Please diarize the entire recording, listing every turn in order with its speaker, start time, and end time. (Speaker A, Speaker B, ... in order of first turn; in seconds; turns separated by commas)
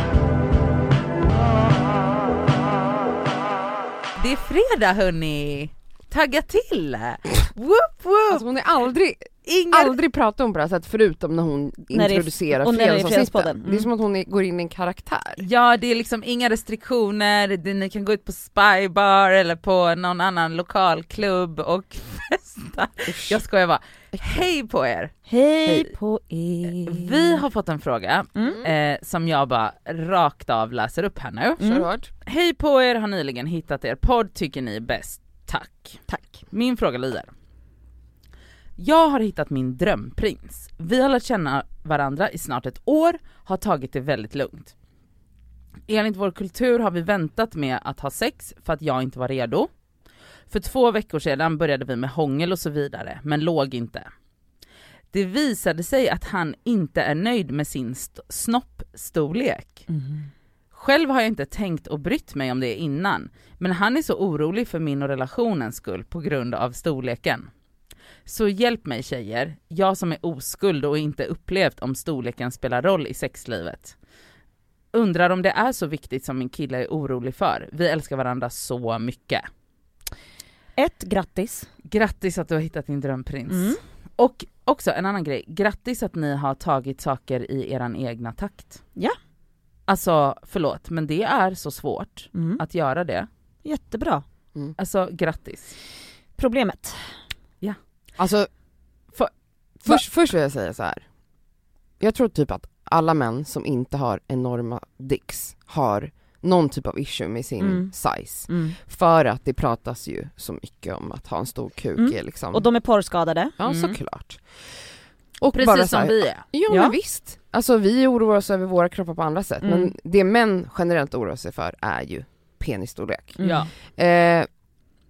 Speaker A: 4.2-8.4, Speaker B: 8.3-15.4, Speaker A: 9.4-10.0, Speaker C: 11.9-13.9, Speaker A: 15.4-25.1, Speaker B: 23.1-23.4, Speaker C: 25.3-27.4, Speaker A: 26.8-31.7, Speaker C: 31.6-31.9, Speaker B: 31.6-32.1, Speaker A: 32.2-37.3, Speaker C: 36.1-36.4, Speaker A: 38.8-44.7, Speaker A: 45.9-49.7, Speaker A: 50.5-54.1, Speaker A: 55.1-59.9, Speaker C: 59.9-60.3, Speaker A: 60.7-67.5, Speaker A: 68.2-73.9, Speaker A: 74.9-79.4, Speaker C: 80.8-81.7, Speaker A: 81.9-88.8, Speaker C: 83.5-83.8, Speaker A: 89.9-93.3, Speaker C: 92.3-92.6, Speaker C: 93.6-94.2, Speaker A: 94.8-95.8, Speaker C: 96.3-97.0, Speaker B: 98.2-98.5, Speaker B: 99.8-101.0, Speaker B: 102.0-112.7, Speaker C: 107.6-107.9, Speaker C: 108.5-108.8, Speaker C: 112.0-113.5, Speaker B: 113.6-114.4, Speaker A: 113.6-114.0, Speaker B: 115.4-124.5, Speaker A: 115.5-116.4, Speaker C: 116.7-117.0, Speaker C: 119.6-119.9, Speaker C: 123.4-123.7, Speaker A: 123.4-123.7